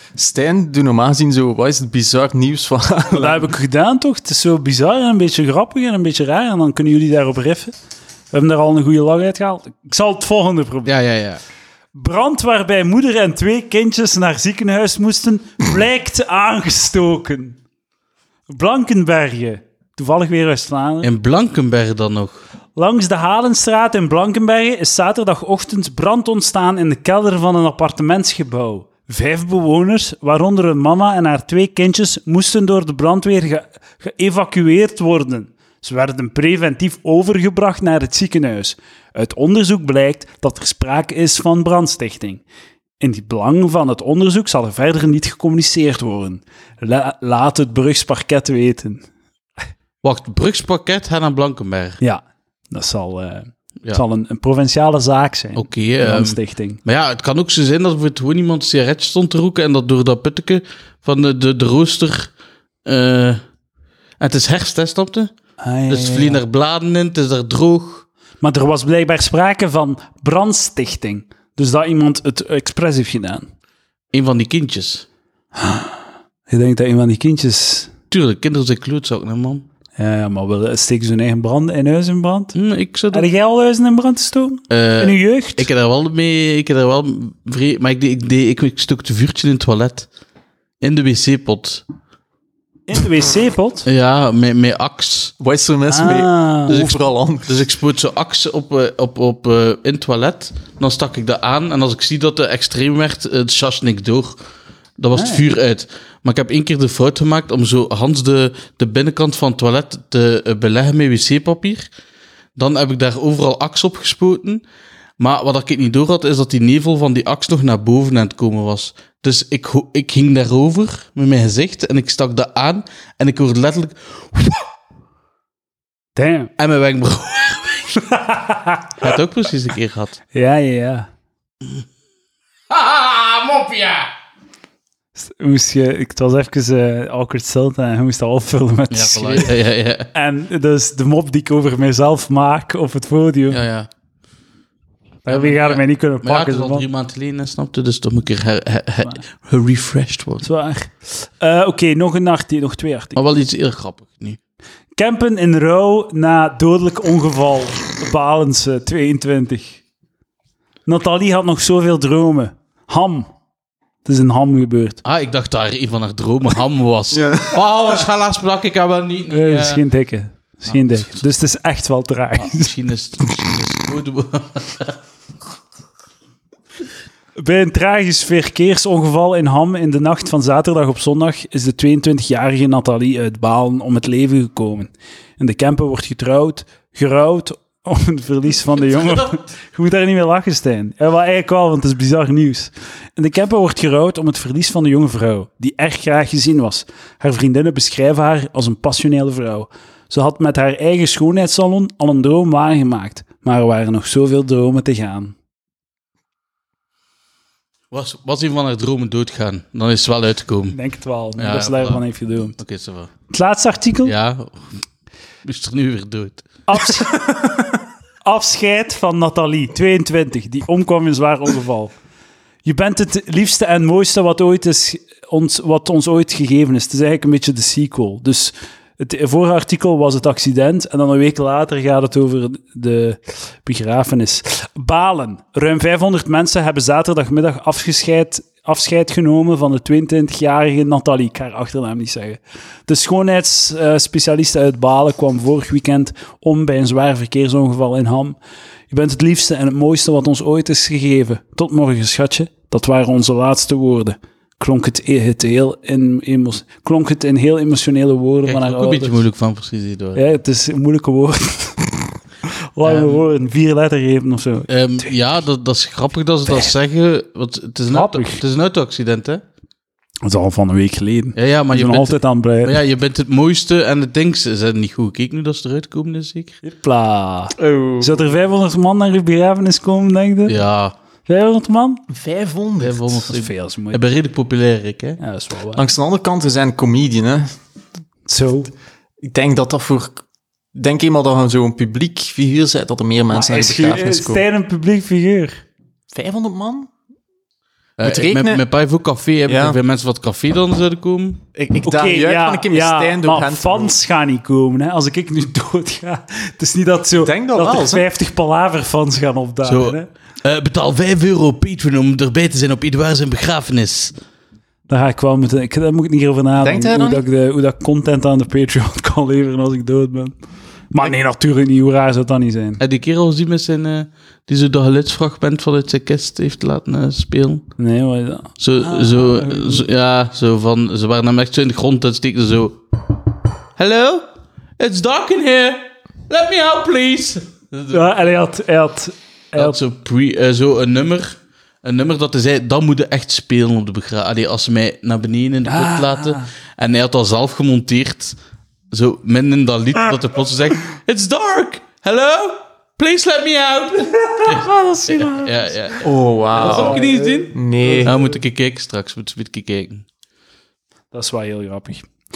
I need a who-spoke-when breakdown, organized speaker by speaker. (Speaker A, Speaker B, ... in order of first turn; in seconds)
Speaker A: 0.1-3.5, 95.4-97.6, 167.2-167.6, 277.6-278.3, 282.1-283.1, 285.8-287.5, 289.2-290.2, 290.7-294.4, 296.1-296.9, 298.0-298.6, 299.5-299.8, 301.6-304.0, 307.2-308.0, 316.6-317.2, 356.0-358.2
Speaker B: 3.1-7.7, 8.3-10.9, 11.9-17.6, 18.5-21.1, 22.8-42.4, 43.0-49.0, 52.0-56.8, 65.6-66.4, 68.4-73.5, 75.6-76.0, 76.5-77.9, 80.0-82.5, 83.1-85.7, 92.9-93.9, 95.9-96.9, 105.2-105.4, 126.2-126.5, 128.0-128.9, 130.3-131.1, 135.2-139.6, 140.1-143.6, 145.3-146.9, 150.4-153.2, 155.0-159.8, 160.9-163.3, 164.1-165.0, 169.3-172.7, 177.4-205.3, 210.7-212.6, 213.3-214.1, 216.7-217.6, 218.2-221.9, 222.7-248.4, 248.9-259.2, 260.1-262.0, 262.7-265.1, 267.9-268.4, 270.2-272.8, 276.6-280.6, 281.3-282.0, 283.3-284.0, 285.2-285.8, 288.3-288.7, 293.3-295.6, 301.8-310.1, 314.9-320.4, 320.9-322.8, 327.8-329.9, 337.9-339.8, 345.7-346.5, 354.4-355.4, 356.6-358.3, 361.1-362.1
Speaker C: 10.8-11.4, 21.0-22.4, 50.0-52.0, 55.5-62.3, 62.9-63.4, 64.2-65.3, 65.9-68.1, 74.1-75.1, 78.1-79.7, 82.5-83.3, 84.7-90.1, 90.8-91.8, 93.9-95.3, 96.7-104.4, 105.0-111.9, 112.6-114.6, 115.2-124.7, 126.6-128.0, 129.0-130.2, 132.7-134.1, 138.9-140.1, 143.5-143.9, 145.3-150.5, 153.2-154.4, 165.0-169.8, 172.3-175.0, 207.9-210.8, 211.4-212.0, 212.5-213.1, 214.1-214.8, 215.4-216.5, 258.5-260.2, 262.8-263.2, 264.7-269.4, 271.4-276.6, 280.5-280.9, 282.8-285.2, 298.0-301.4, 309.6-314.1, 322.8-327.7, 328.6-333.1, 333.8-338.0, 339.6-348.4, 348.9-360.1